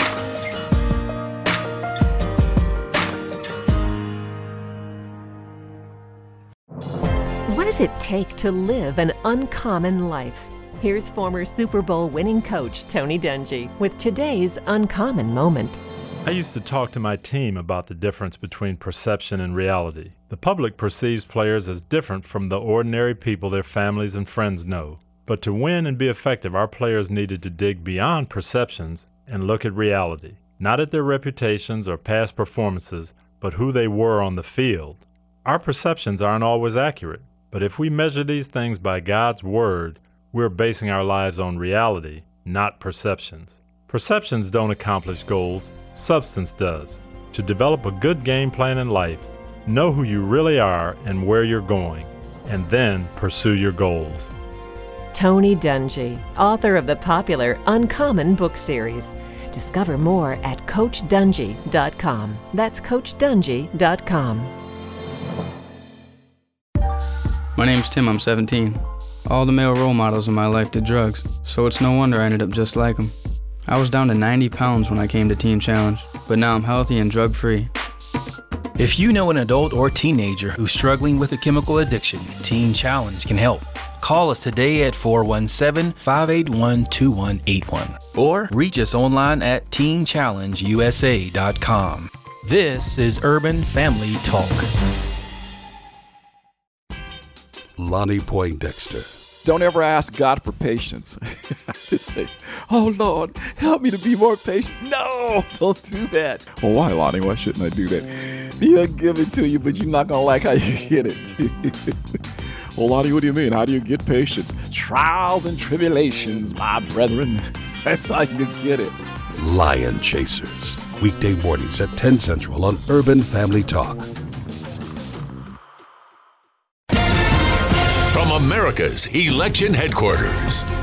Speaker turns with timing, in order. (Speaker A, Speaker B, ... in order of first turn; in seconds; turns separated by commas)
Speaker A: 7.5-15.8, Speaker B: 16.2-54.3, Speaker A: 55.1-64.5, Speaker C: 67.5-77.7, Speaker D: 78.8-83.6, Speaker D: 84.1-88.6, Speaker D: 89.5-94.5, Speaker E: 97.8-99.1, Speaker F: 99.4-112.2, Speaker F: 112.8-119.0, Speaker E: 119.4-124.1, Speaker G: 128.1-130.7